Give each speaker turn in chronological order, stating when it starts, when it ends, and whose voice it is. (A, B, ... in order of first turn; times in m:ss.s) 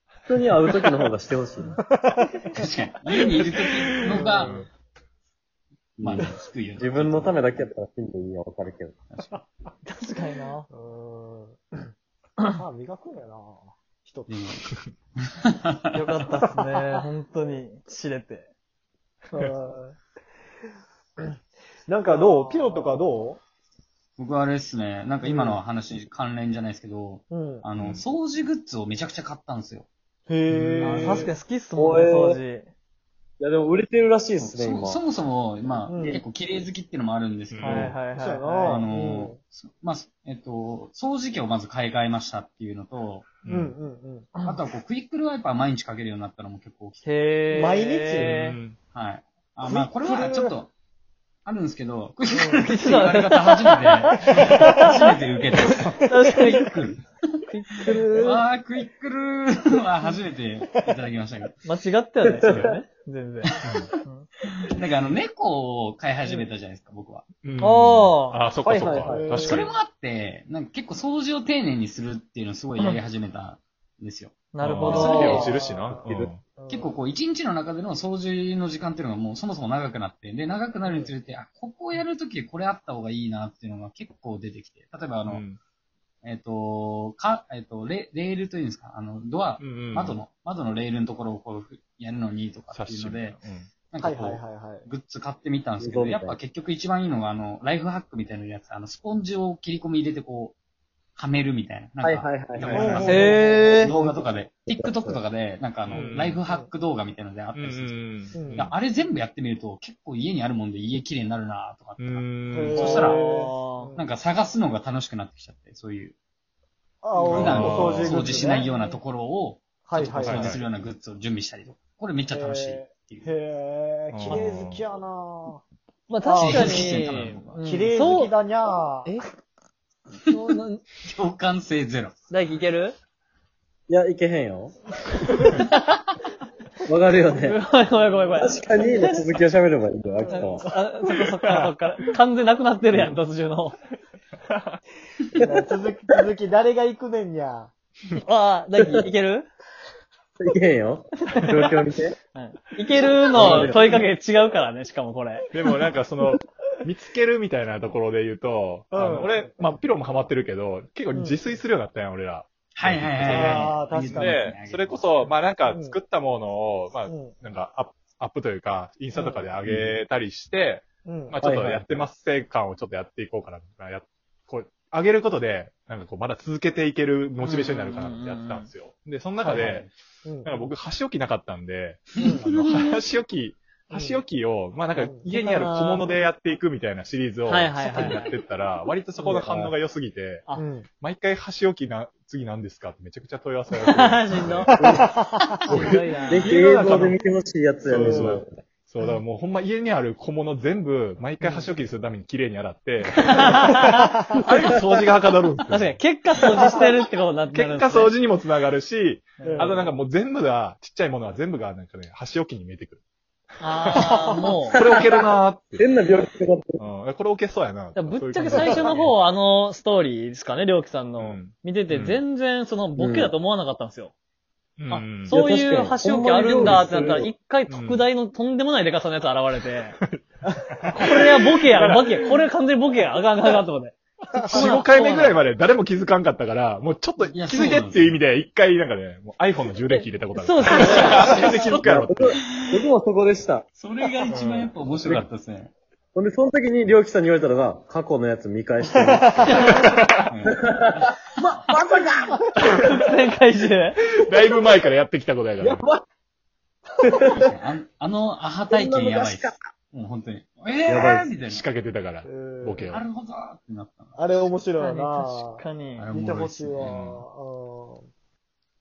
0:00.3-0:01.8 A
0:01.8-0:02.6 B
0:02.5-0:04.5 C
0:04.0-0:04.6 B
0:04.1-0:04.7 D
0:06.0-0:09.0 A
0:06.0-0:07.4 C
0:09.1-0:09.4 C
0:09.8-0:10.7 E
0:10.7-0:11.9 B
0:12.5-0:14.4 B
0:14.3-0:14.7 C
0:15.9-0:18.5 E
0:19.3-0:20.0 B
0:21.8-0:23.4 B
0:22.4-0:22.8 E
0:24.2-0:29.9 C
0:25.2-0:25.6 B
0:27.3-0:27.6 B
0:27.8-0:28.0 D
0:30.3-0:31.3 B
0:30.5-0:31.2 D
0:30.8-0:31.3 C
0:31.0-0:32.7 E
0:31.8-0:32.4 A
0:33.4-0:35.0 A
0:34.4-0:38.0 C
0:35.9-0:36.2 B
0:37.5-0:38.0 D
0:37.6-0:38.8 E
0:38.1-0:39.4 B
0:38.6-0:43.3 C
0:43.4-0:43.7 D
0:43.5-0:44.3 B
0:44.4-0:47.1 C
0:47.0-0:48.6 E
0:47.5-0:48.4 B
0:48.2-0:48.8 D
0:48.9-0:50.7 C
0:49.6-0:50.5 B
0:51.4-0:57.4 C
0:52.3-0:52.7 B
0:52.7-0:55.0 E
0:56.0-0:56.7 E
0:57.5-0:58.4 E
0:57.9-1:01.6 C
1:01.6-1:04.3 E
1:02.3-1:02.7 A
1:04.6-1:07.2 C
1:07.4-1:09.7 D
1:07.6-1:08.4 E
1:08.6-1:09.4 A
1:09.0-1:09.6 B
1:09.3-1:15.6 C
1:12.8-1:13.0 E
1:14.5-1:15.6 E
1:14.6-1:16.4 D
1:14.9-1:16.9 B
1:15.9-1:16.3 A
1:16.7-1:25.4 C
1:20.8-1:21.1 B
1:25.3-1:25.6 D
1:26.2-1:33.4 C
1:29.6-1:30.2 D
1:32.7-1:33.7 D
1:33.9-1:40.6 C
1:34.0-1:34.8 B
1:35.8-1:36.4 A
1:41.2-1:53.2 C
1:42.0-1:45.2 A
1:42.6-1:43.3 D
1:42.7-1:43.3 B
1:43.0-1:43.9 E
1:45.9-1:46.4 D
1:45.9-1:46.7 B
1:47.5-1:48.7 D
1:48.3-1:48.7 B
1:52.0-1:52.8 D
1:52.5-1:54.1 B
1:52.7-1:53.9 E
1:53.9-1:56.2 C
1:57.0-1:58.9 B
1:57.2-2:03.3 C
1:57.3-1:58.3 D
1:59.8-2:00.6 B
2:00.2-2:00.6 D
2:02.3-2:05.6 B
2:04.1-2:04.8 D
2:06.1-2:08.3 E
2:06.2-2:06.8 B
2:06.3-2:07.6 C
2:07.6-2:09.1 B
2:10.2-2:10.8 E
2:11.0-2:12.1 C
2:12.3-2:13.0 E
2:13.9-2:14.7 A
2:16.8-2:17.6 A
2:17.3-2:19.3 E
2:18.3-2:20.7 A
2:20.2-2:20.5 B
2:20.3-2:23.8 E
2:24.5-2:24.8 D
2:25.4-2:27.7 B
2:28.1-2:29.5 E
2:28.8-2:29.0 A
2:30.4-2:32.2 A
2:32.3-2:35.5 E
2:33.0-2:34.0 A
2:33.3-2:33.7 D
2:35.5-2:59.9 D
2:38.9-2:39.5 B
2:41.1-2:41.6 B
2:42.8-2:45.0 C
2:43.2-2:44.5 B
2:45.7-2:46.0 B
2:47.1-2:47.3 B
2:49.1-2:49.5 B
2:49.6-2:50.0 A
2:51.0-2:51.4 B
2:51.4-2:52.0 A
2:57.4-2:58.7 E
3:00.2-3:00.6 B
3:00.4-3:10.4 D
3:02.2-3:02.9 E
3:02.3-3:02.7 B
3:03.9-3:04.2 B
3:05.0-3:05.2 B
3:05.2-3:06.1 E
3:07.4-3:08.3 E
3:09.2-3:09.7 A
3:10.5-3:10.9 B
3:11.0-3:14.8 D
3:13.7-3:14.7 E
3:14.8-3:15.1 A
3:14.8-3:15.7 B
3:15.7-3:16.6 E
3:15.7-3:17.2 D
3:16.3-3:18.6 A
3:16.5-3:17.1 B
3:17.8-3:23.7 D
3:17.9-3:18.4 B
3:21.4-3:21.7 B
3:23.4-3:24.1 E
3:23.9-3:24.3 B
3:24.3-3:26.0 D
3:24.5-3:24.9 A
3:25.7-3:28.1 E
3:26.4-3:26.8 A
3:27.5-3:33.0 D
3:29.4-3:29.9 E
3:29.4-3:29.8 B
3:33.6-3:34.8 E
3:33.6-3:35.9 D
3:34.7-3:36.8 A
3:36.8-3:39.2 D
3:37.9-3:44.1 E
3:41.2-3:42.2 D
3:43.0-3:43.3 A
3:44.8-3:45.4 D
3:44.9-3:50.0 E
3:45.3-3:47.3 A
3:47.7-3:48.0 D
3:50.0-3:52.2 D
3:50.9-3:55.4 E
3:54.4-3:54.8 B
3:54.4-4:02.4 D
3:57.2-3:58.2 C
3:59.9-4:01.4 E
4:00.8-4:03.6 A
4:01.1-4:01.4 C
4:03.8-4:05.7 C
4:04.3-4:04.7 D
4:06.1-4:09.6 A
4:09.3-4:09.6 B
4:09.5-4:09.8 E
4:09.7-4:10.3 D
4:10.3-4:11.1 C
4:10.4-4:12.4 A
4:12.6-4:14.0 E
4:14.2-4:15.8 D
4:15.6-4:16.0 A
4:17.0-4:17.3 A
4:17.3-4:21.6 C
4:18.7-4:19.6 A
4:20.8-4:21.3 A
4:21.4-4:23.0 D
4:22.2-4:22.9 B
4:22.9-4:24.5 C
4:24.2-4:25.6 B
4:24.8-4:26.0 E
4:26.0-4:26.9 C
4:26.1-4:28.1 B
4:26.8-4:27.2 D